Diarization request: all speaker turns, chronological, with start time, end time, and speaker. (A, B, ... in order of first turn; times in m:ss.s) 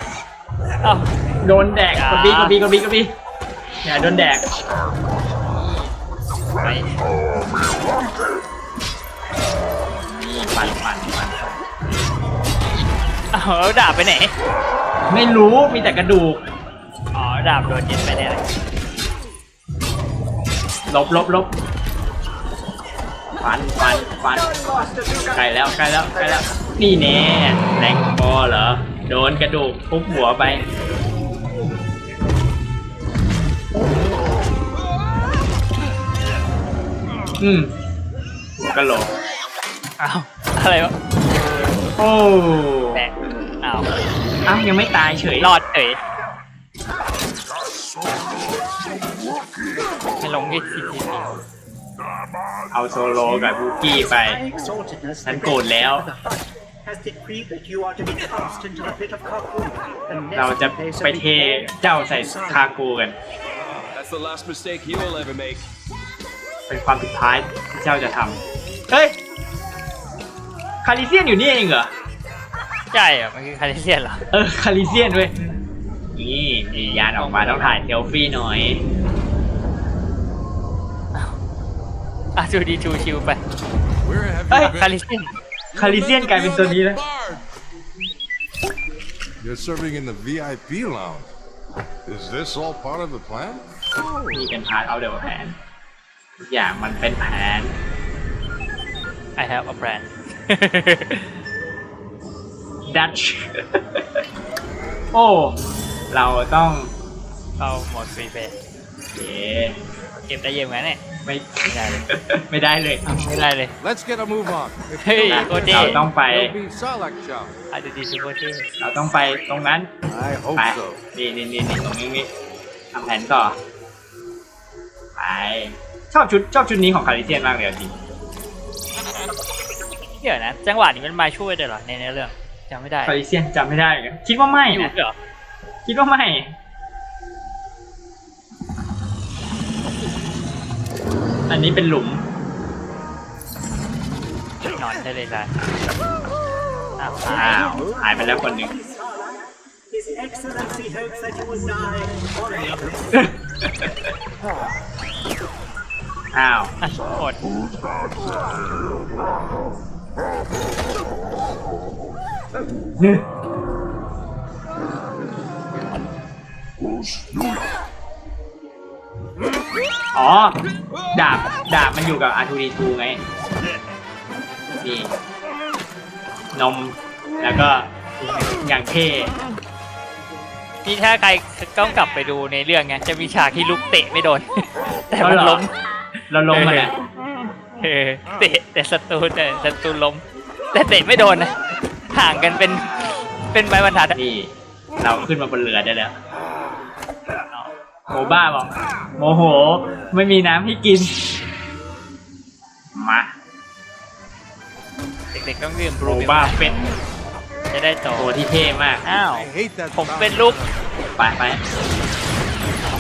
0:00.8-0:01.1 A
0:01.4-0:03.1 B
0:02.0-0:02.6 A
0:03.8-0:04.6 B
0:05.4-0:05.9 A
0:06.6-0:06.9 A
0:07.3-0:08.1 C
0:10.0-0:11.6 B
0:13.3-0:14.3 A
0:15.1-0:16.4 B
0:17.1-0:18.5 A
0:20.9-0:21.5 B
0:23.4-0:24.6 B
0:24.5-0:25.3 D
0:25.3-0:30.6 B
0:37.4-0:37.7 B
0:38.6-0:39.1 B
0:40.0-0:41.0 A
0:41.5-0:41.8 A
0:42.0-0:43.0 B
0:42.9-0:43.9 A
0:44.5-0:45.5 B
0:45.4-0:46.0 A
0:47.5-0:51.3 C
0:50.2-0:51.4 A
0:52.7-0:54.4 B
0:54.1-1:02.7 D
0:55.2-0:56.1 B
1:00.4-1:03.2 B
1:03.9-1:05.6 C
1:06.7-1:09.2 B
1:10.8-1:11.9 B
1:12.9-1:14.2 A
1:14.3-1:15.6 B
1:16.2-1:18.8 B
1:17.2-1:17.8 A
1:22.4-1:23.4 A
1:24.0-1:25.0 E
1:24.5-1:24.8 B
1:24.8-1:25.3 A
1:25.7-1:27.4 E
1:25.8-1:27.0 B
1:29.4-1:31.3 E
1:32.1-1:33.6 E
1:34.3-1:35.6 B
1:36.4-1:37.8 B
1:39.4-1:41.3 A
1:42.9-1:44.2 B
1:45.1-1:45.6 B
1:46.1-1:46.9 B
1:47.6-1:48.5 A
1:49.1-1:49.8 B
1:50.2-1:51.0 A
1:51.2-1:53.3 B
1:51.6-1:52.0 A
1:53.1-1:53.7 A
1:53.8-1:57.5 E
1:55.0-1:56.0 A
1:55.2-1:56.6 B
1:57.7-1:58.7 A
1:58.8-1:59.9 B
2:00.1-2:01.0 E
2:00.6-2:02.3 B
2:02.9-2:03.6 B
2:05.2-2:08.0 B
2:10.2-2:13.2 A
2:13.1-2:14.9 B
2:14.7-2:15.2 A
2:15.9-2:16.6 B
2:21.5-2:22.2 B
2:24.7-2:25.6 A
2:27.0-2:27.6 A
2:27.3-2:28.7 B
2:27.4-2:33.3 D
2:33.1-2:33.9 B
2:36.3-2:36.7 B
2:36.8-2:37.4 A
2:37.5-2:38.8 C
2:46.8-2:47.7 C
2:50.1-2:50.6 B
2:51.1-2:53.2 B
2:54.8-2:55.1 B
2:56.5-2:59.3 B
3:00.8-3:05.7 A
3:05.2-3:05.6 B
3:06.3-3:06.9 B
3:06.5-3:07.0 A
3:07.8-3:11.5 A
3:12.1-3:12.9 A
3:13.5-3:14.2 A
3:14.2-3:16.2 B
3:18.1-3:21.2 B
3:22.9-3:23.3 B
3:25.3-3:26.9 A
3:26.0-3:26.8 B
3:27.7-3:28.3 A
3:28.2-3:29.0 B
3:29.0-3:30.6 A
3:29.3-3:30.8 E
3:31.2-3:31.6 B